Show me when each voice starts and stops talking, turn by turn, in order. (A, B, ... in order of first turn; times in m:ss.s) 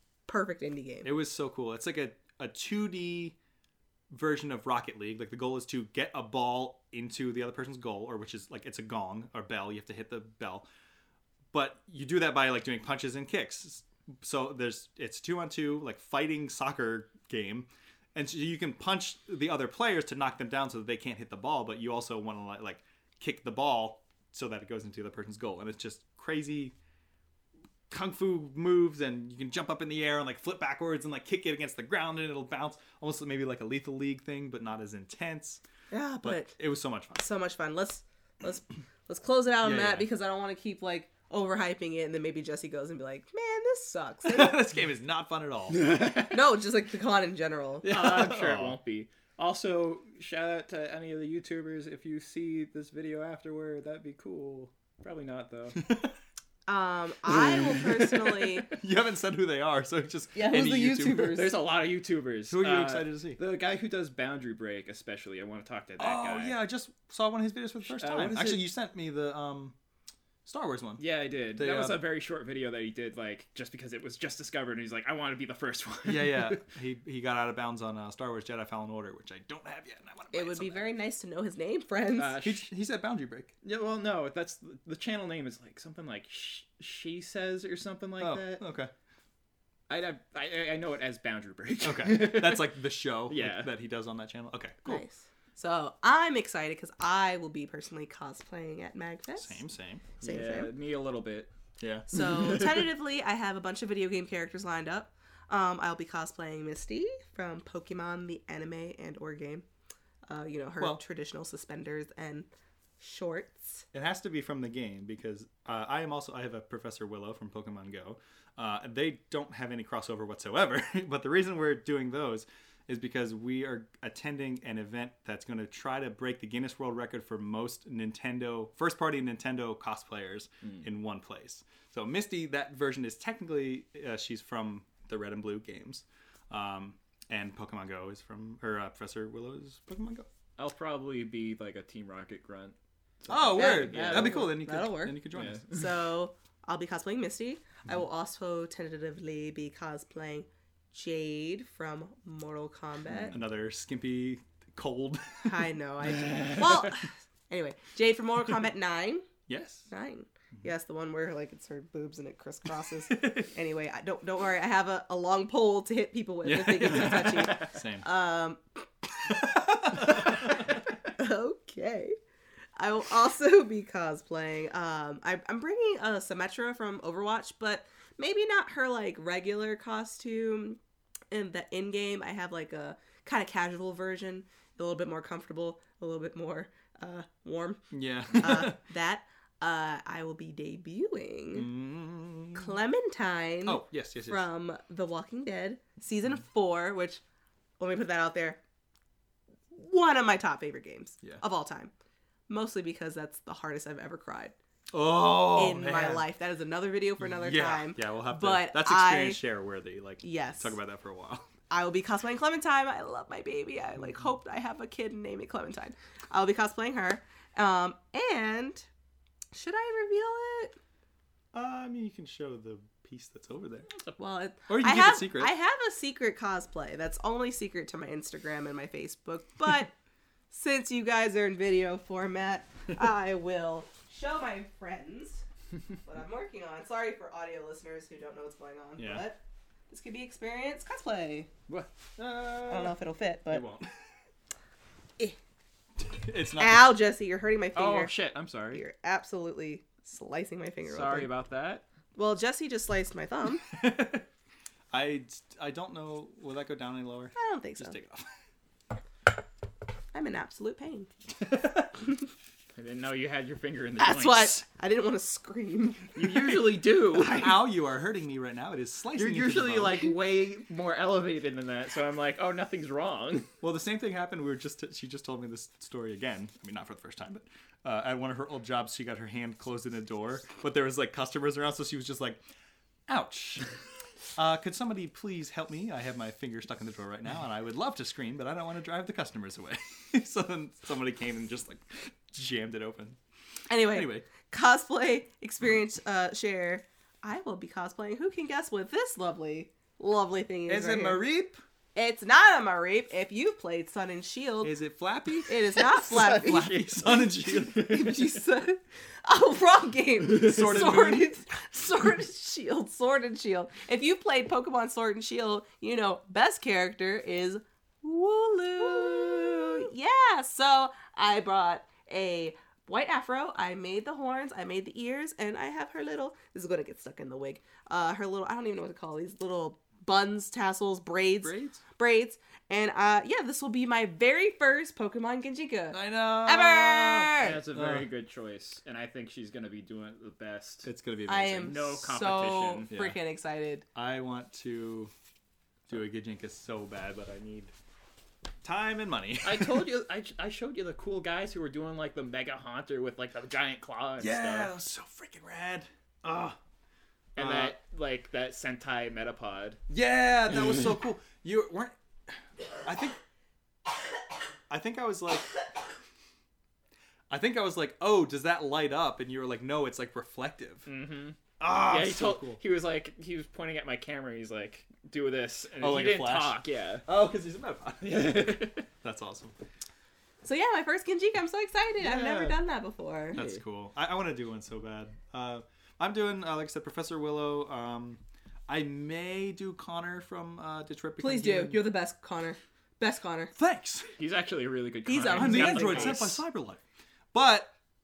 0:00.3-0:01.1 A
0:01.0-0:03.4 B
0:04.1-0:10.6 B
0:11.5-0:26.7 B
0:27.9-0:35.6 B
0:35.9-0:36.6 A
0:36.2-0:37.2 B
0:37.2-0:44.6 A
0:39.6-0:40.1 B
0:44.2-0:46.0 B
0:45.7-0:46.4 C
0:46.3-0:47.9 A
0:47.8-0:48.8 B
0:47.8-0:55.8 C
0:55.8-0:56.2 B
0:56.7-0:58.7 A
0:57.3-1:01.4 B
1:00.4-1:01.6 A
1:01.2-1:06.6 C
1:02.5-1:03.4 B
1:06.0-1:09.8 B
1:07.9-1:08.6 C
1:10.5-1:11.0 B
1:11.0-1:16.6 C
1:11.6-1:12.0 B
1:16.1-1:20.9 B
1:20.3-1:22.4 A
1:22.2-1:22.6 C
1:22.4-1:23.5 B
1:23.6-1:28.6 C
1:28.2-1:28.9 B
1:29.9-1:32.8 C
1:31.8-1:35.0 B
1:33.3-1:33.7 C
1:34.8-1:39.6 A
1:39.4-1:40.2 B
1:40.2-1:40.7 A
1:40.2-1:41.5 C
1:41.8-1:42.1 B
1:42.1-1:49.6 A
1:42.1-1:42.9 C
1:50.3-1:52.5 A
1:53.0-1:53.9 A
1:53.9-2:20.3 B
2:20.6-2:24.5 C
2:23.3-2:25.6 B
2:23.5-2:33.4 A
2:25.3-2:25.8 C
2:33.2-2:35.7 B
2:35.4-2:39.3 A
2:39.5-2:39.9 B
2:39.9-2:48.8 A
2:43.1-2:43.5 B
2:46.4-2:48.1 B
2:49.2-2:50.7 B
2:50.0-2:52.2 A
2:52.8-3:00.8 A
3:01.3-3:11.7 A
3:07.9-3:08.8 B
3:11.5-3:12.8 B
3:12.5-3:17.2 A
3:13.6-3:14.4 B
3:17.8-3:18.6 A
3:19.7-3:21.9 A
3:22.5-3:24.6 A
3:24.9-3:26.3 B
3:25.5-3:29.4 A
3:27.2-3:31.5 B
3:30.2-3:30.8 A
3:31.7-3:38.9 A
3:39.5-3:40.8 A
3:41.5-3:43.9 B
3:44.2-3:49.9 A
3:44.7-3:45.5 B
3:50.5-3:55.4 A
3:56.0-4:01.5 A
3:59.0-3:59.2 B
4:02.2-4:03.0 B
4:02.6-4:03.7 A
4:03.5-4:03.8 C
4:06.0-4:07.0 B
4:06.6-4:08.1 A
4:07.8-4:08.8 C
4:08.7-4:11.3 A
4:10.8-4:11.8 C
4:12.2-4:13.7 A
4:13.7-4:14.3 B
4:14.9-4:18.3 B
4:17.4-4:18.0 A
4:20.1-4:21.1 A
4:21.4-4:21.9 B
4:22.8-4:24.6 C
4:24.0-4:26.6 A
4:26.2-4:27.6 C
4:27.1-4:30.1 B
4:29.2-4:33.5 C
4:33.6-4:42.4 B
4:43.1-4:43.7 B
4:44.4-4:53.2 B
4:53.7-5:01.2 A
4:53.8-4:54.3 B
5:00.7-5:01.6 B
5:02.0-5:04.8 A
5:04.6-5:08.2 B
5:05.5-5:37.6 A
5:10.3-5:11.3 B
5:19.1-5:19.7 B
5:31.4-5:31.8 B
5:35.9-5:38.1 B
5:37.4-5:40.9 C
5:40.8-5:41.8 B
5:41.3-5:43.8 A
5:41.6-5:42.9 C
5:42.9-5:43.2 B
5:44.0-5:45.1 B
5:45.9-5:47.7 B
5:48.6-5:49.9 B
5:49.4-5:54.7 C
5:54.2-5:56.6 B
5:57.4-5:57.8 B
5:57.4-5:59.8 C
5:59.9-6:03.2 B
6:04.7-6:05.5 B
6:07.3-6:10.9 B
6:10.9-6:17.0 C
6:11.6-6:12.6 B
6:15.8-6:19.6 B
6:18.0-6:18.9 C
6:20.4-6:23.4 A
6:22.0-6:22.6 B
6:23.3-6:31.8 B
6:23.4-6:23.6 C
6:31.2-6:33.5 A
6:33.6-6:34.1 B
6:34.2-6:36.4 C
6:35.1-6:36.4 A
6:35.3-6:36.8 B
6:37.3-6:37.7 B